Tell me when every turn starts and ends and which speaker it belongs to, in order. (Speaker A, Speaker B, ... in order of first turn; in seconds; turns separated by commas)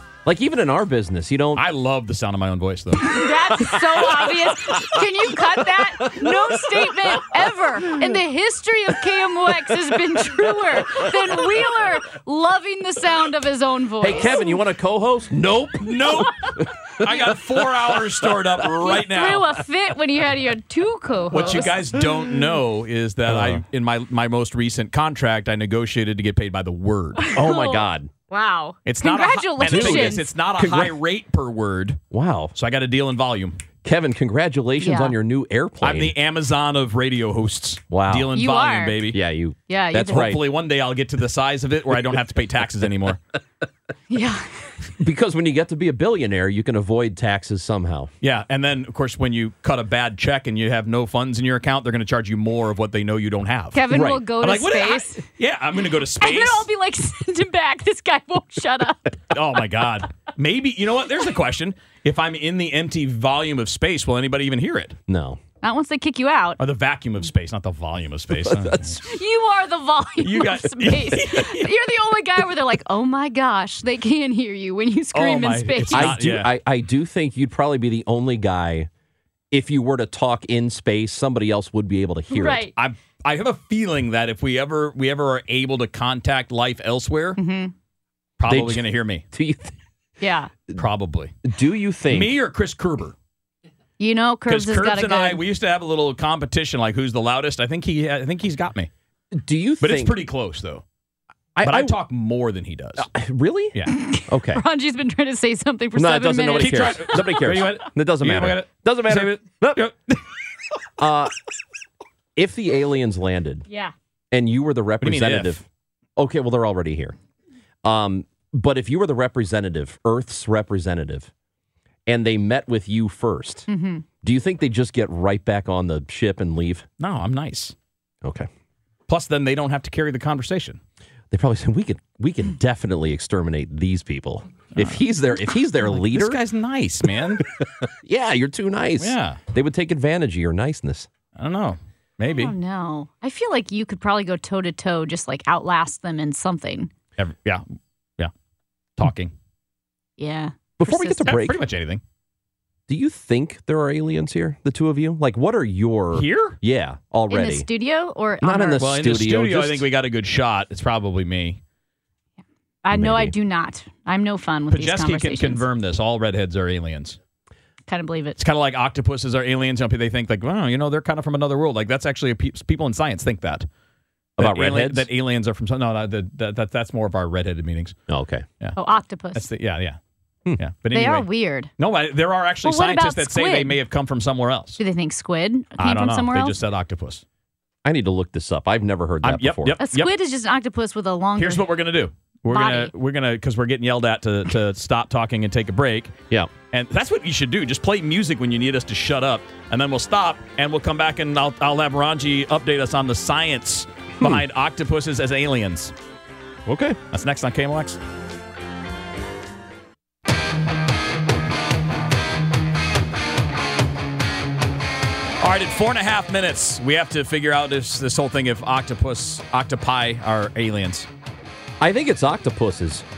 Speaker A: 0.2-1.6, Speaker B: 1.6-3.3, Speaker C: 3.0-14.6, Speaker A: 5.8-6.9, Speaker A: 10.7-11.0, Speaker A: 14.0-18.0, Speaker B: 15.8-19.6, Speaker C: 18.8-21.8, Speaker B: 21.3-27.3, Speaker A: 21.4-21.7, Speaker A: 23.3-23.6, Speaker C: 27.2-30.3, Speaker A: 27.3-28.1, Speaker B: 28.9-32.0, Speaker A: 29.6-31.0, Speaker A: 32.1-32.5, Speaker B: 32.5-33.6, Speaker A: 33.8-36.1, Speaker C: 34.8-35.2, Speaker B: 35.8-39.2, Speaker A: 37.9-38.4, Speaker C: 38.3-39.0, Speaker A: 39.1-40.5, Speaker C: 39.7-40.3, Speaker B: 40.0-43.2, Speaker C: 44.1-44.7, Speaker A: 45.0-48.1, Speaker B: 48.2-56.7, Speaker C: 53.7-55.2, Speaker A: 53.9-54.2, Speaker C: 56.2-59.1, Speaker B: 59.3-65.0, Speaker A: 65.1-65.4, Speaker C: 65.6-66.6, Speaker B: 66.6-69.0, Speaker A: 68.3-69.0, Speaker C: 69.1-76.2, Speaker B: 70.2-71.7, Speaker B: 75.1-76.5, Speaker A: 75.9-78.9, Speaker A: 79.5-82.7, Speaker C: 82.3-82.7, Speaker B: 82.8-87.4, Speaker C: 87.4-87.7, Speaker B: 88.4-89.2, Speaker A: 88.5-89.8, Speaker C: 90.2-90.5, Speaker B: 90.8-91.3, Speaker A: 91.5-92.3, Speaker B: 92.1-93.2, Speaker C: 94.0-95.4, Speaker B: 94.5-98.9, Speaker A: 99.3-100.2, Speaker B: 99.8-100.8, Speaker A: 101.6-102.0, Speaker B: 101.6-103.1, Speaker A: 103.0-104.6, Speaker C: 103.9-107.3, Speaker A: 106.0-109.8, Speaker B: 106.6-110.2, Speaker A: 111.0-111.3, Speaker A: 112.4-113.6, Speaker C: 113.7-113.9, Speaker A: 114.3-115.7, Speaker B: 115.0-115.6, Speaker A: 116.2-117.2, Speaker A: 117.8-121.3, Speaker A: 122.1-123.7, Speaker C: 123.7-124.0, Speaker A: 124.2-126.9, Speaker B: 127.0-127.8, Speaker A: 128.2-128.5, Speaker B: 129.1-130.8, Speaker A: 131.3-136.4, Speaker B: 134.8-135.0, Speaker B: 135.9-137.5, Speaker A: 137.4-141.1, Speaker B: 139.0-139.4, Speaker B: 141.4-142.5, Speaker C: 142.3-146.9, Speaker B: 147.2-147.6, Speaker B: 149.0-149.3, Speaker C: 150.2-151.3, Speaker A: 150.8-151.6, Speaker B: 151.2-152.0, Speaker A: 152.9-157.7, Speaker B: 156.1-156.6, Speaker C: 157.3-158.8, Speaker A: 158.4-159.9, Speaker B: 158.8-161.6, Speaker C: 162.8-165.6, Speaker A: 162.9-163.3, Speaker B: 164.7-167.2, Speaker C: 167.9-168.4, Speaker B: 168.4-173.7, Speaker A: 174.4-175.1, Speaker B: 174.4-178.0, Speaker A: 178.1-178.5, Speaker C: 178.8-179.5, Speaker B: 179.3-180.0, Speaker B: 180.6-184.8, Speaker C: 180.9-181.7, Speaker C: 182.6-183.8, Speaker C: 184.8-186.6, Speaker B: 185.8-187.2, Speaker A: 187.8-189.8, Speaker B: 189.2-190.1, Speaker C: 189.8-191.7, Speaker B: 191.4-196.2, Speaker C: 192.5-192.9, Speaker B: 196.7-205.9, Speaker A: 206.7-207.0, Speaker B: 207.1-208.0, Speaker B: 215.4-221.1, Speaker A: 221.8-223.1